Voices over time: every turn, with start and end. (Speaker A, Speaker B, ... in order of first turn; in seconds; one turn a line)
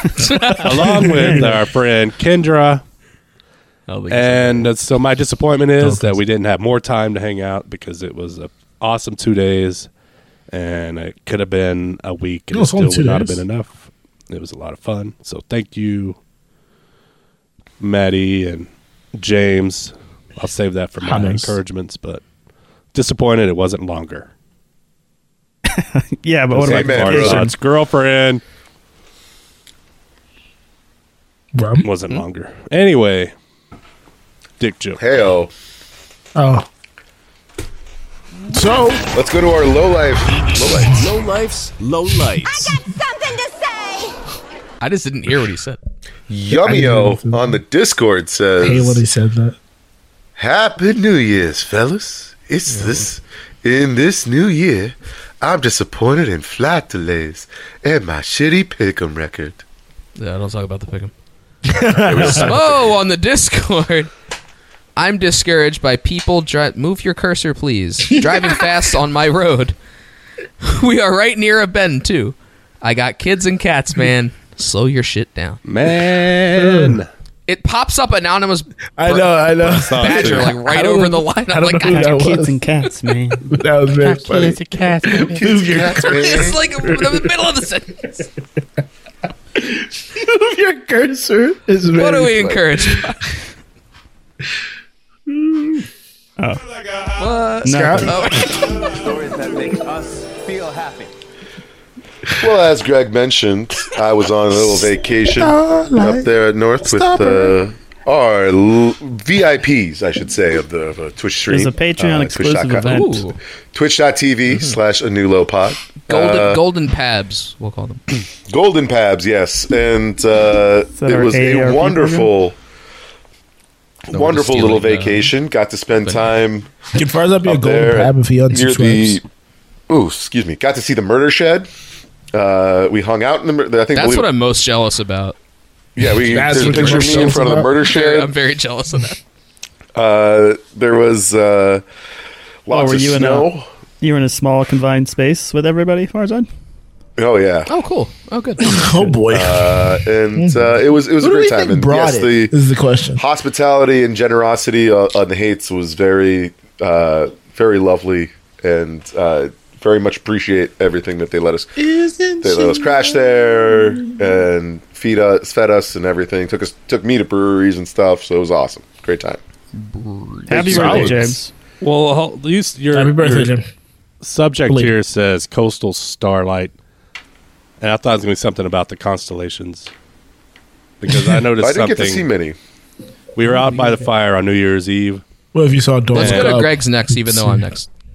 Speaker A: 0.2-1.6
Speaker B: 0.3-0.6
Speaker C: 0.5-2.8
Speaker B: 3.9-4.7
Speaker C: 4.1-9.9
Speaker D: 5.8-6.2
Speaker C: 10.5-16.2
Speaker D: 12.5-13.4
Speaker C: 17.8-22.2
Speaker D: 21.0-21.6
Speaker C: 22.9-24.3
Speaker A: 25.7-27.5
Speaker C: 26.5-28.4
Speaker E: 26.6-27.5
Speaker D: 31.6-31.9
Speaker C: 31.8-33.3
Speaker C: 34.6-35.0
Speaker E: 35.0-35.5
Speaker D: 36.4-36.7
Speaker D: 38.5-39.0
Speaker E: 39.1-41.1
Speaker B: 44.8-45.8
Speaker E: 46.3-49.0
Speaker D: 46.5-47.6
Speaker D: 48.6-49.6
Speaker E: 50.4-59.6
Speaker B: 52.7-53.0
Speaker B: 60.2-61.1
Speaker D: 61.7-62.6
Speaker E: 62.1-62.9
Speaker B: 62.1-64.1
Speaker B: 65.0-69.8
Speaker D: 68.2-68.6
Speaker B: 70.6-75.6
Speaker C: 75.7-77.1
Speaker D: 76.5-77.0
Speaker B: 77.5-82.2
Speaker D: 79.0-82.6
Speaker C: 79.6-80.5
Speaker A: 81.9-83.5
Speaker D: 83.5-87.3
Speaker C: 84.0-85.4
Speaker E: 85.2-86.6
Speaker B: 86.0-88.3
Speaker D: 89.6-92.9
Speaker B: 91.9-93.2
Speaker D: 95.3-95.8
Speaker B: 97.2-98.8
Speaker A: 97.6-98.5
Speaker D: 97.7-99.0
Speaker E: 102.4-113.1
Speaker D: 105.3-106.3
Speaker D: 106.8-107.6
Speaker A: 111.5-113.3
Speaker B: 112.8-113.4
Speaker E: 113.7-116.6
Speaker B: 114.5-114.8
Speaker B: 116.1-118.0
Speaker E: 118.1-122.6
Speaker A: 121.0-122.3
Speaker E: 124.1-126.7
Speaker B: 124.1-125.3
Speaker B: 126.0-126.3
Speaker D: 126.9-129.2
Speaker E: 127.5-129.2
Speaker E: 129.9-131.7
Speaker E: 132.3-134.3
Speaker B: 133.9-135.3
Speaker E: 136.0-138.3
Speaker D: 136.2-137.7
Speaker B: 136.5-139.2
Speaker E: 140.0-141.8
Speaker E: 142.7-143.7
Speaker A: 142.7-146.5
Speaker E: 147.2-147.7
Speaker B: 147.7-148.8
Speaker D: 148.6-153.2
Speaker E: 149.3-152.6
Speaker E: 153.2-161.7
Speaker D: 161.8-164.4
Speaker E: 162.4-169.4
Speaker B: 169.7-171.2
Speaker A: 170.5-171.5
Speaker E: 170.6-171.2
Speaker D: 170.7-171.2
Speaker C: 170.8-171.1
Speaker C: 171.8-173.6
Speaker D: 172.9-173.7
Speaker C: 174.2-176.7
Speaker D: 174.7-174.9
Speaker C: 177.8-179.9
Speaker C: 181.0-182.3
Speaker E: 181.6-182.6
Speaker C: 183.4-185.2
Speaker D: 185.5-187.6
Speaker B: 186.1-187.9
Speaker C: 186.2-186.6